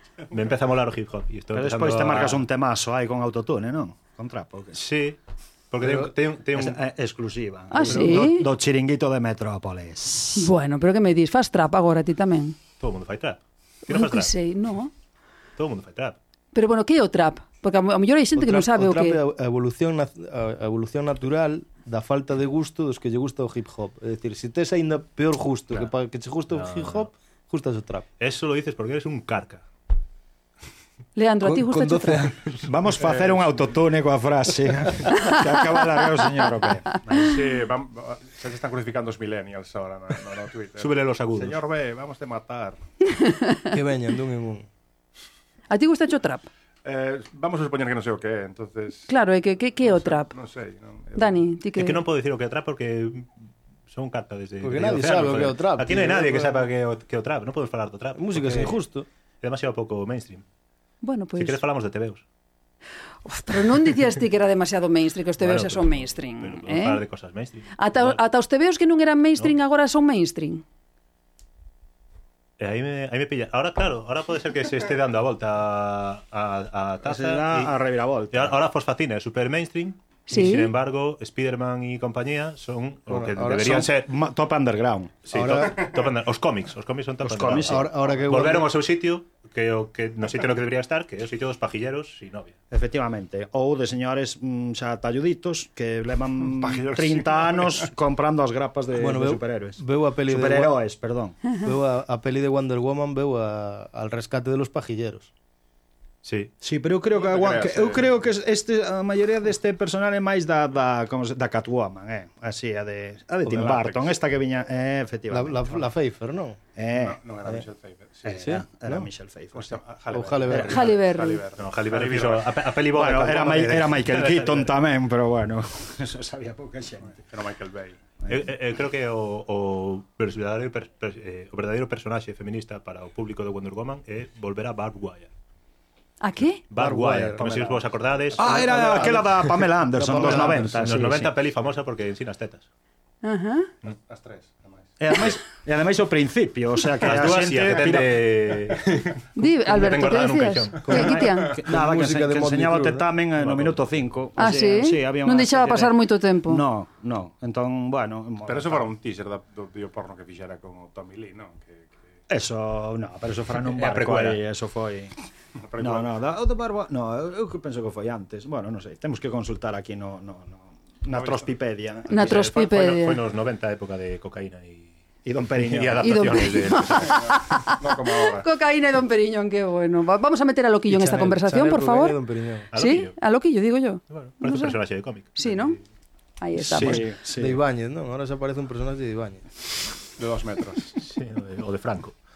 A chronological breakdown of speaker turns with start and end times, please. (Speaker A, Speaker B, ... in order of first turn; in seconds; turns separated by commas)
Speaker A: 0.3-2.4, Speaker B: 1.5-4.8, Speaker A: 4.8-5.2, Speaker A: 5.7-6.8, Speaker B: 5.9-10.5, Speaker C: 7.7-8.5, Speaker A: 7.9-8.5, Speaker C: 10.4-12.6, Speaker A: 12.8-14.3, Speaker C: 13.9-14.9, Speaker A: 15.6-16.2, Speaker C: 16.5-19.2, Speaker D: 18.4-28.1, Speaker A: 26.5-27.1, Speaker A: 28.2-29.6, Speaker C: 31.2-32.3, Speaker D: 31.4-32.5, Speaker B: 32.6-37.4, Speaker E: 33.0-33.4, Speaker E: 37.1-42.8, Speaker A: 40.8-41.6, Speaker C: 43.2-43.7, Speaker D: 43.7-44.7, Speaker C: 45.7-46.5, Speaker E: 46.8-49.1, Speaker C: 49.1-50.4, Speaker E: 49.8-51.4, Speaker C: 51.2-52.0, Speaker A: 51.8-53.3, Speaker A: 53.9-58.8, Speaker D: 54.6-56.6, Speaker D: 58.1-59.1, Speaker A: 59.4-60.4, Speaker C: 61.0-61.6, Speaker A: 61.4-62.2, Speaker C: 63.2-67.0, Speaker A: 65.4-68.2, Speaker C: 67.8-70.6, Speaker A: 72.6-77.7, Speaker B: 77.0-78.6, Speaker A: 78.3-84.1, Speaker C: 80.3-80.7, Speaker D: 83.1-83.7, Speaker B: 83.5-85.3, Speaker A: 85.3-92.6, Speaker D: 85.3-85.9, Speaker B: 87.2-87.9, Speaker D: 87.5-88.7, Speaker B: 92.7-101.4, Speaker E: 96.4-97.8, Speaker D: 99.0-100.8, Speaker D: 101.5-105.3, Speaker A: 106.2-106.5, Speaker B: 106.6-115.9, Speaker E: 107.1-108.2, Speaker E: 113.4-114.2, Speaker D: 115.3-116.6, Speaker B: 116.8-117.7, Speaker E: 116.9-118.4, Speaker B: 118.2-119.8, Speaker D: 118.4-119.1, Speaker E: 119.5-122.5, Speaker D: 120.1-120.9, Speaker C: 120.5-121.4, Speaker A: 121.6-124.8, Speaker B: 122.9-127.2, Speaker E: 127.1-128.0, Speaker A: 128.3-135.3, Speaker C: 136.2-136.6, Speaker A: 136.7-139.2, Speaker D: 136.8-137.6, Speaker E: 137.4-139.1, Speaker B: 138.4-141.3, Speaker D: 138.4-140.8, Speaker A: 140.1-142.7, Speaker C: 143.2-143.7, Speaker E: 143.9-144.9, Speaker B: 145.0-148.3, Speaker A: 147.0-151.2, Speaker C: 149.4-151.5, Speaker D: 150.9-153.1, Speaker B: 151.5-158.9, Speaker A: 153.4-153.8, Speaker C: 154.4-156.6, Speaker E: 158.5-162.1, Speaker B: 162.3-165.1, Speaker A: 163.6-164.4, Speaker E: 165.6-166.1, Speaker B: 165.8-172.5, Speaker E: 171.1-171.5, Speaker C: 172.1-173.2, Speaker A: 172.1-174.9, Speaker B: 175.2-176.3, Speaker A: 175.6-177.4, Speaker C: 176.0-182.2, Speaker E: 177.0-178.5, Speaker D: 180.9-182.7, Speaker A: 182.7-183.2, Speaker C: 182.7-184.8, Speaker A: 184.1-185.8, Speaker C: 185.4-185.8, Speaker C: 186.4-187.0, Speaker B: 186.7-187.6, Speaker D: 186.8-189.5, Speaker E: 190.2-191.0, Speaker A: 191.0-192.2